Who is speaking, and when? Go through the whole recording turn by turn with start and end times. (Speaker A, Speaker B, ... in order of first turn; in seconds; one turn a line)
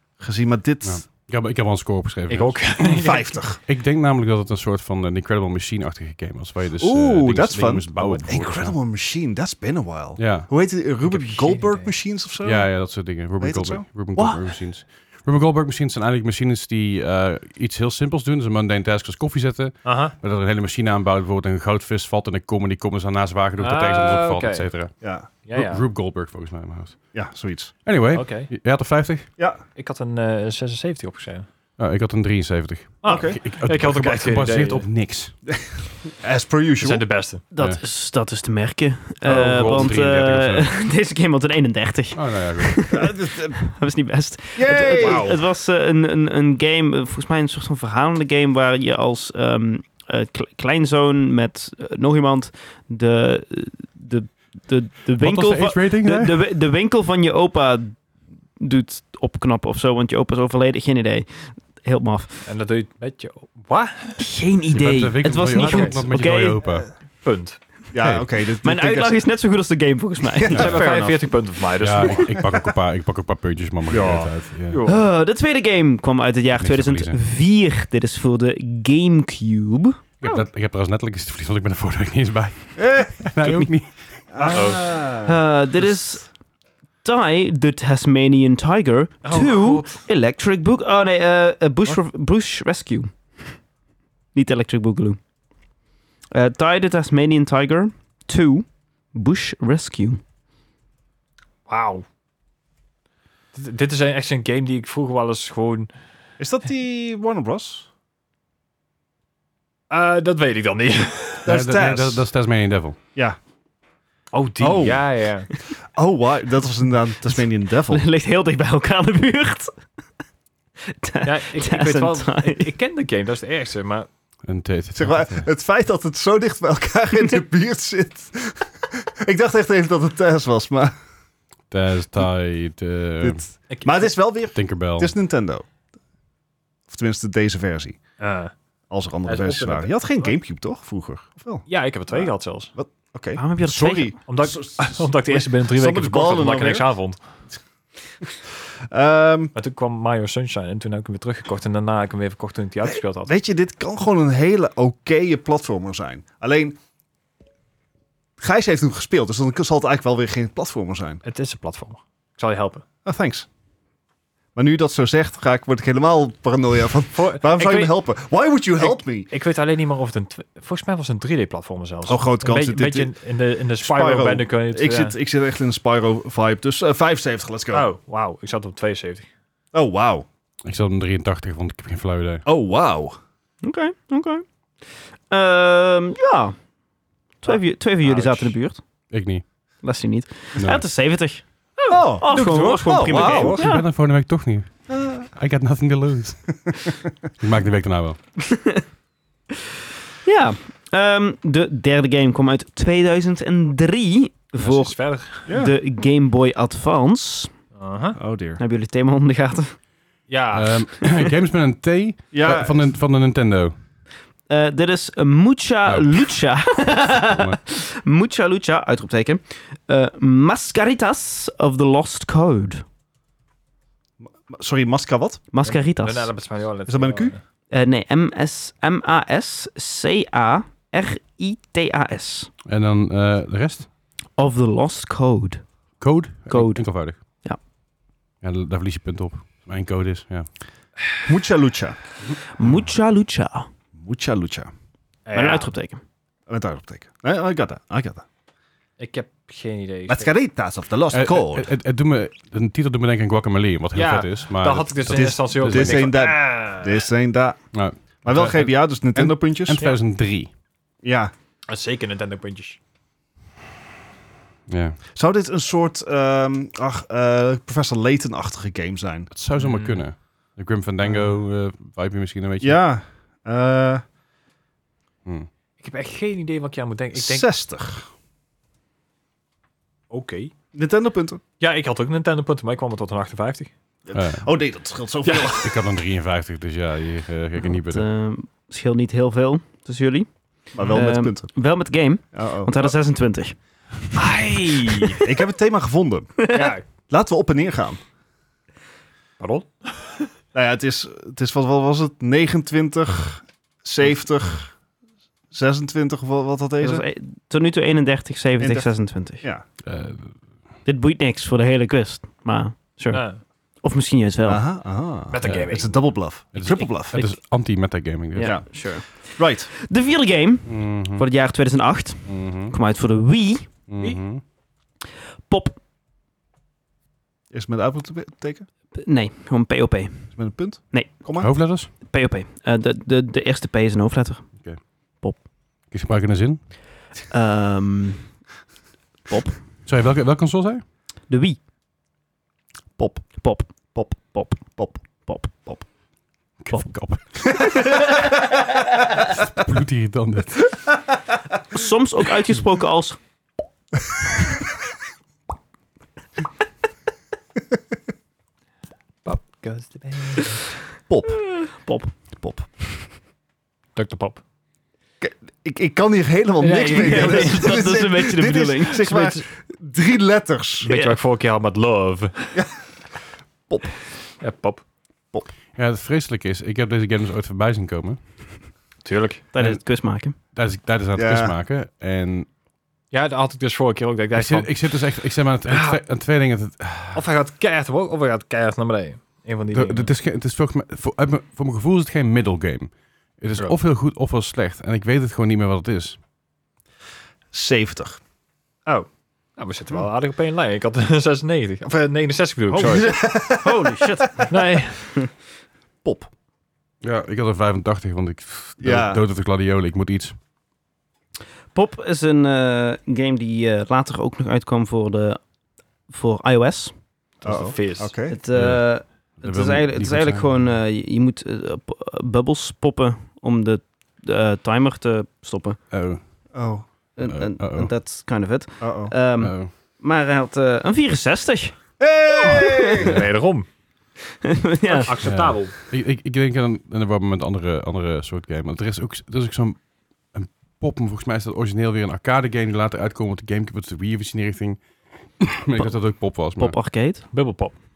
Speaker A: 0.2-1.0
Speaker B: 0.8-2.7
Speaker C: 2.3-3.4
Speaker A: 2.8-3.6
Speaker B: 3.6-8.7
Speaker A: 6.8-12.7
Speaker B: 10.2-10.5
Speaker C: 11.0-11.9
Speaker B: 12.4-24.9
Speaker A: 13.4-13.8
Speaker D: 14.1-14.4
Speaker C: 19.8-20.1
Speaker C: 23.6-24.6
Speaker A: 25.0-25.3
Speaker C: 25.4-25.8
Speaker B: 25.5-27.1
Speaker A: 27.1-27.7
Speaker B: 27.8-29.3
Speaker C: 28.1-28.5
Speaker C: 29.8-31.5
Speaker B: 31.8-35.4
Speaker C: 33.0-34.9
Speaker A: 33.0-33.4
Speaker A: 35.5-37.0
Speaker C: 36.8-37.4
Speaker D: 37.5-58.0
Speaker B: 39.3-40.7
Speaker C: 39.3-39.9
Speaker B: 42.1-43.0
Speaker A: 42.9-43.6
Speaker A: 44.5-45.4
Speaker C: 45.0-45.3
Speaker B: 55.2-56.4
Speaker D: 58.6-62.4
Speaker C: 62.4-64.2
Speaker D: 64.2-66.6
Speaker B: 64.7-66.9
Speaker C: 65.5-66.0
Speaker C: 67.2-67.6
Speaker A: 67.9-69.2
Speaker B: 68.0-68.2
Speaker D: 68.6-71.1
Speaker A: 70.2-71.3
Speaker C: 70.5-72.3
Speaker B: 70.5-70.8
Speaker B: 71.8-74.8
Speaker C: 73.9-75.1
Speaker D: 74.8-80.0
Speaker B: 76.6-77.2
Speaker B: 80.2-84.0
Speaker A: 82.8-83.1
Speaker D: 83.4-83.7
Speaker A: 84.3-86.0
Speaker C: 84.5-84.9
Speaker D: 85.0-86.3
Speaker D: 87.0-93.5
Speaker C: 89.2-90.0
Speaker D: 94.3-95.2
Speaker D: 96.3-100.2
Speaker C: 101.7-102.0
Speaker C: 103.5-105.9
Speaker A: 106.4-107.9
Speaker C: 109.9-111.5
Speaker A: 111.4-112.2
Speaker B: 111.5-113.0
Speaker C: 114.3-115.5
Speaker A: 114.6-115.2
Speaker A: 115.9-118.0
Speaker D: 117.9-119.7
Speaker D: 120.9-122.7
Speaker C: 121.2-124.1
Speaker B: 124.5-125.5
Speaker A: 125.0-130.9
Speaker B: 131.7-133.4
Speaker A: 133.2-135.6
Speaker C: 133.7-134.1
Speaker B: 134.5-135.1
Speaker A: 136.9-138.0
Speaker C: 138.2-138.5
Speaker A: 138.9-146.9
Speaker C: 139.2-140.3
Speaker C: 141.7-142.7
Speaker D: 143.3-144.1
Speaker C: 144.3-147.2
Speaker A: 148.9-149.5
Speaker C: 149.5-153.3
Speaker A: 152.8-156.8
Speaker A: 158.4-161.2
Speaker C: 161.2-162.8
Speaker A: 163.0-163.5
Speaker A: 164.5-169.3
Speaker C: 167.1-167.9
Speaker C: 168.8-175.2
Speaker A: 172.1-173.1
Speaker A: 173.8-177.9
Speaker C: 177.7-179.3
Speaker A: 179.7-180.2
Speaker B: 180.6-182.4
Speaker A: 182.4-183.2
Speaker D: 183.6-184.4
Speaker D: 185.3-186.6
Speaker D: 187.4-188.8
Speaker C: 187.5-188.6
Speaker B: 189.1-189.4
Speaker D: 189.8-193.8
Speaker B: 190.6-190.8
Speaker A: 191.9-193.6
Speaker C: 192.3-193.6
Speaker B: 193.5-198.2
Speaker A: 194.9-195.2
Speaker D: 198.4-198.8
Speaker D: 200.2-207.5
Speaker C: 204.6-205.5
Speaker A: 205.5-205.7
Speaker C: 207.8-208.2
Speaker A: 208.2-208.6
Speaker D: 208.6-209.7
Speaker C: 210.3-210.8
Speaker B: 210.5-213.7
Speaker A: 212.3-212.9
Speaker D: 214.5-222.8
Speaker B: 215.8-217.6
Speaker A: 224.2-225.4
Speaker D: 225.5-226.3
Speaker C: 225.6-227.4
Speaker A: 226.9-227.3
Speaker D: 227.7-232.5
Speaker B: 232.7-233.9
Speaker D: 234.3-235.7
Speaker B: 236.0-237.2
Speaker D: 236.5-237.6
Speaker B: 238.4-240.5
Speaker A: 241.2-242.0
Speaker D: 242.6-243.7
Speaker A: 243.9-244.7
Speaker C: 245.3-245.7
Speaker D: 245.3-246.0
Speaker A: 246.5-248.2
Speaker C: 249.0-250.3
Speaker A: 250.1-251.7
Speaker B: 251.1-256.1
Speaker C: 253.9-257.0
Speaker A: 255.1-257.6
Speaker B: 257.7-260.5
Speaker A: 258.2-259.8
Speaker A: 261.0-261.3
Speaker C: 261.7-262.8
Speaker B: 264.7-265.0
Speaker A: 265.1-269.3
Speaker B: 269.3-272.8
Speaker C: 269.6-270.0
Speaker A: 272.6-274.0
Speaker C: 275.8-277.5
Speaker A: 277.1-278.1
Speaker C: 280.1-280.5
Speaker A: 280.7-281.4
Speaker C: 281.6-283.7
Speaker A: 284.1-285.8
Speaker B: 284.1-284.5
Speaker C: 285.2-285.5
Speaker B: 285.5-288.0
Speaker D: 287.9-294.2
Speaker A: 290.7-291.5
Speaker A: 292.3-292.9
Speaker C: 294.1-295.2
Speaker D: 294.8-295.2
Speaker A: 295.2-296.4
Speaker D: 296.4-296.7
Speaker C: 296.5-296.8
Speaker A: 297.1-298.0
Speaker C: 299.4-300.3
Speaker A: 300.5-304.7
Speaker A: 305.5-307.0
Speaker D: 306.8-309.4
Speaker A: 308.6-309.6
Speaker B: 309.8-310.3
Speaker D: 310.8-314.6
Speaker C: 313.1-313.4
Speaker A: 314.4-317.3
Speaker C: 315.3-316.1
Speaker B: 315.4-315.7
Speaker B: 316.5-318.6
Speaker D: 318.3-323.7
Speaker A: 318.4-319.7
Speaker B: 320.6-321.2
Speaker B: 322.2-322.7
Speaker B: 323.9-324.4
Speaker D: 325.5-325.8
Speaker A: 327.5-328.6
Speaker D: 328.9-330.3
Speaker A: 330.3-331.5
Speaker B: 331.4-331.9
Speaker D: 332.0-334.5
Speaker B: 335.9-336.7
Speaker D: 337.3-338.3
Speaker D: 339.3-339.6
Speaker B: 339.9-340.8
Speaker D: 341.3-341.6
Speaker A: 343.0-343.4
Speaker D: 343.4-345.7
Speaker A: 344.7-345.0
Speaker B: 346.6-347.6
Speaker D: 347.5-348.3
Speaker B: 349.5-350.8
Speaker D: 351.7-353.2
Speaker C: 359.2-360.8
Speaker A: 361.1-361.5
Speaker D: 361.6-362.1
Speaker A: 362.4-362.7
Speaker C: 363.9-364.4
Speaker A: 365.2-370.9
Speaker C: 366.6-367.7
Speaker D: 366.8-369.1
Speaker C: 369.0-369.4
Speaker C: 370.8-372.6
Speaker D: 370.9-371.1
Speaker A: 373.7-373.9
Speaker C: 374.4-374.8
Speaker B: 375.8-378.2
Speaker C: 379.0-379.4
Speaker D: 379.5-380.4
Speaker B: 379.6-382.5
Speaker A: 381.1-381.5
Speaker C: 383.1-384.7
Speaker B: 384.3-387.2
Speaker C: 385.7-386.0
Speaker C: 387.1-390.1
Speaker B: 389.7-396.2
Speaker A: 397.5-398.2
Speaker C: 398.9-403.2
Speaker A: 402.7-404.4
Speaker D: 403.6-404.5
Speaker C: 404.5-405.1
Speaker A: 406.0-406.3
Speaker B: 407.0-410.4
Speaker A: 408.8-409.2
Speaker D: 411.7-415.4
Speaker D: 416.1-416.9
Speaker C: 417.4-418.1
Speaker A: 417.4-418.4
Speaker D: 418.3-425.8
Speaker B: 418.5-418.8
Speaker B: 419.4-420.6
Speaker B: 425.9-426.2
Speaker A: 426.5-426.8
Speaker D: 427.2-431.8
Speaker B: 427.3-427.9
Speaker A: 428.8-429.1
Speaker B: 429.4-429.7
Speaker A: 432.0-433.2
Speaker D: 432.3-433.1
Speaker C: 433.0-433.7
Speaker D: 434.4-435.2
Speaker C: 434.9-435.7
Speaker B: 435.2-446.8
Speaker D: 446.6-447.2
Speaker C: 447.3-447.8